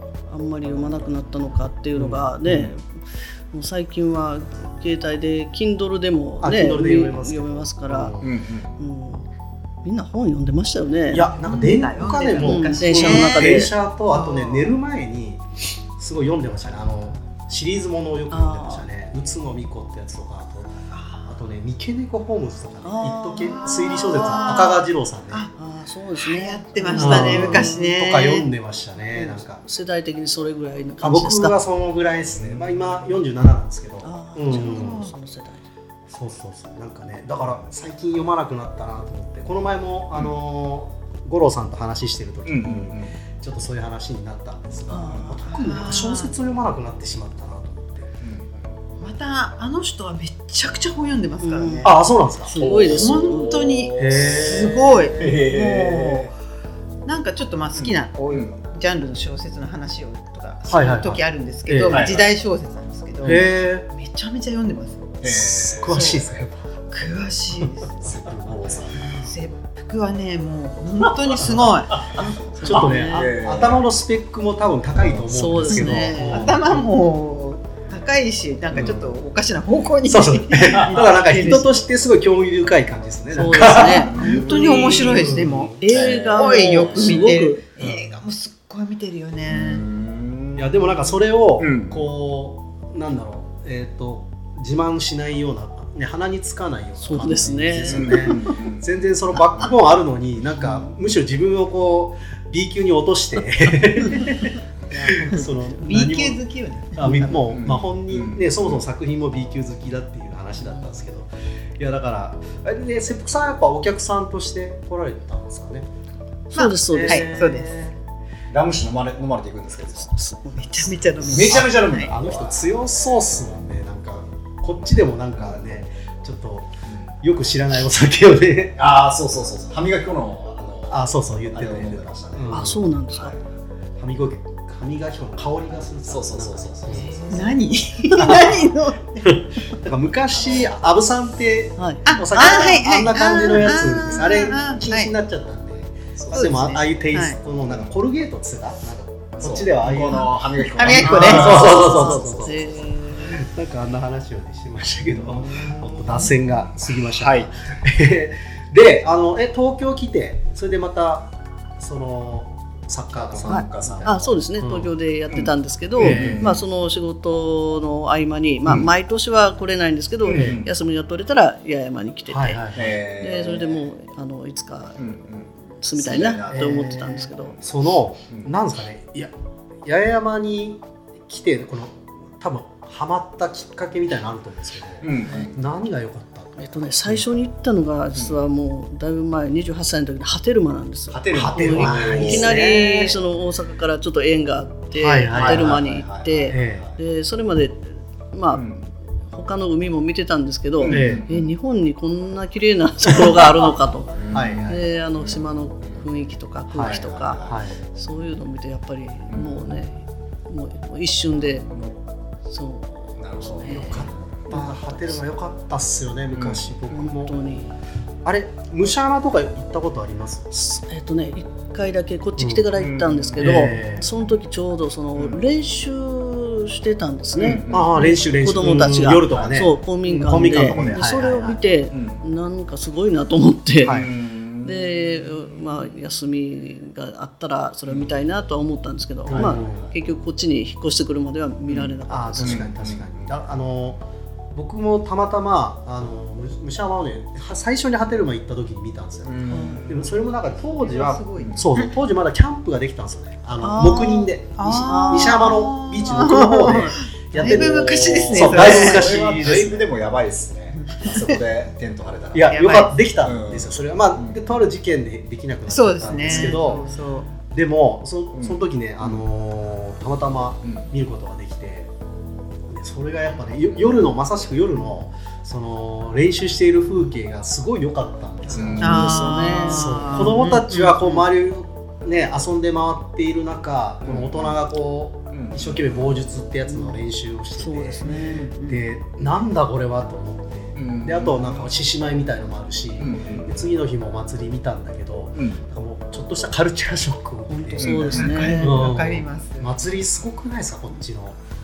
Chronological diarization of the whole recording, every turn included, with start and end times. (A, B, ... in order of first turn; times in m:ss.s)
0:00.3-0:08.2 A
0:02.0-0:02.7 B
0:06.4-0:08.4 B
0:08.2-0:08.8 C
0:08.8-0:09.3 A
0:09.8-0:11.3 A
0:11.1-0:15.4 B
0:11.4-0:14.8 D
0:12.4-0:13.7 A
0:16.0-0:20.8 B
0:18.3-0:18.9 A
0:20.9-0:21.3 D
0:21.3-0:25.5 B
0:22.8-0:24.7 A
0:23.4-0:25.5 D
0:25.6-0:27.9 A
0:26.2-0:28.5 D
0:26.9-0:29.6 B
0:29.2-0:31.6 A
0:31.0-0:35.0 B
0:32.4-0:33.0 C
0:34.0-0:35.7 A
0:34.5-0:35.1 D
0:36.1-0:48.1 B
0:42.5-0:43.2 C
0:44.9-0:45.6 A
0:45.5-0:46.3 D
0:48.2-0:48.7 C
0:49.0-0:56.3 D
0:51.4-0:51.9 A
0:51.8-0:52.6 B
0:52.5-0:56.3 C
0:52.5-0:53.9 A
0:54.0-0:55.3 B
0:57.1-1:05.2 D
0:57.8-0:58.6 C
1:00.7-1:02.2 B
1:01.9-1:02.3 C
1:03.2-1:03.9 B
1:05.2-1:06.2 C
1:05.2-1:06.6 B
1:05.9-1:06.3 D
1:06.9-1:08.1 D
1:08.0-1:09.2 C
1:08.0-1:08.7 B
1:09.0-1:13.0 D
1:12.0-1:13.8 C
1:12.5-1:13.3 A
1:12.6-1:16.8 B
1:15.3-1:16.5 A
1:15.7-1:21.7 D
1:18.7-1:19.1 C
1:20.1-1:24.2 B
1:23.3-1:27.6 A
1:24.0-1:25.3 C
1:24.2-1:29.8 D
1:25.1-1:25.8 B
1:25.8-1:28.2 C
1:29.5-1:30.8 C
1:30.6-1:44.6 B
1:31.6-1:32.1 C
1:37.0-1:38.5 A
1:37.9-1:39.7 C
1:44.9-1:45.5 A
1:45.1-1:46.4 B
1:45.4-1:47.5 D
1:46.9-1:55.9 B
1:47.5-1:48.8 C
1:56.5-1:57.3 A
1:56.5-1:57.8 D
1:56.9-1:58.0 B
1:58.5-2:00.1 C
2:00.0-2:01.2 A
2:00.6-2:02.1 D
2:01.2-2:02.9 C
2:01.3-2:08.8 B
2:08.8-2:12.6 C
2:10.9-2:12.8 B
2:12.5-2:13.4 A
2:14.0-2:17.2 B
2:16.1-2:17.1 C
2:16.9-2:19.4 D
2:18.1-2:30.3 B
2:21.8-2:22.6 A
2:22.1-2:25.1 D
2:26.2-2:26.6 C
2:26.3-2:27.4 D
2:29.4-2:32.9 C
2:30.1-2:32.2 D
2:30.9-2:44.9 B
2:31.0-2:33.4 A
2:35.1-2:37.5 C
2:43.3-2:44.4 C
2:43.5-2:52.6 A
2:45.3-2:46.6 C
2:46.0-2:46.5 B
2:48.7-2:48.9 C
2:50.2-2:50.7 C
2:50.3-2:50.6 B
2:52.3-2:53.0 B
2:52.7-2:53.9 C
2:53.2-2:55.0 A
2:55.0-2:57.0 C
2:55.8-2:57.6 A
2:56.5-3:07.3 B
3:05.0-3:05.6 C
3:06.6-3:18.7 A
3:11.1-3:12.6 C
3:11.3-3:13.2 B
3:14.9-3:15.8 B
3:15.3-3:17.0 C
3:16.5-3:16.9 B
3:18.5-3:18.9 C
3:19.3-3:31.7 A
3:20.8-3:21.5 C
3:20.9-3:21.2 B
3:24.2-3:26.0 C
3:24.3-3:24.8 B
3:26.7-3:27.8 B
3:26.8-3:27.6 C
3:29.3-3:29.6 C
3:31.6-3:32.0 C
3:32.5-3:35.2 A
3:33.2-3:34.4 C
3:33.6-3:37.4 B
3:36.3-3:36.8 C
3:36.9-3:37.8 A
3:38.2-3:40.5 B
3:40.5-3:54.1 A
3:42.4-3:42.7 B
3:42.8-3:43.7 C
3:43.4-3:44.1 B
3:47.4-3:48.1 C
3:47.7-3:51.6 B
3:49.2-3:49.7 C
3:50.4-3:51.0 C
3:51.9-3:52.2 C
3:53.8-3:54.1 B
3:53.8-3:55.2 C
3:54.6-4:02.7 A
3:57.9-3:58.1 C
3:59.3-3:59.9 B
3:59.3-3:59.6 C
4:01.7-4:03.3 C
4:02.1-4:04.0 B
4:04.5-4:19.9 B
4:09.2-4:10.2 C
4:09.5-4:09.8 A
4:10.7-4:11.9 D
4:11.1-4:11.7 C
4:13.6-4:14.3 A
4:14.6-4:19.2 D
4:14.8-4:17.6 A
4:18.4-4:22.6 C
4:20.8-4:21.4 D
4:22.3-4:26.9 B
4:22.5-4:23.0 D
4:23.2-4:24.4 C
4:25.7-4:27.3 D
4:27.4-4:31.9 B
4:28.4-4:29.2 C
4:30.6-4:30.9 C
4:32.7-4:39.1 B
4:38.5-4:39.1 C
4:38.8-4:40.2 A
4:38.8-4:41.2 D
4:39.6-5:01.4 B
4:44.0-4:44.6 C
4:45.3-4:45.8 C
4:46.7-4:47.0 A
4:47.6-4:48.5 A
4:48.4-4:48.8 D
4:50.8-4:51.7 C
4:53.0-4:53.6 C
4:55.4-4:55.6 C
4:57.5-4:58.8 A
4:57.8-4:58.6 C
4:58.1-4:59.7 D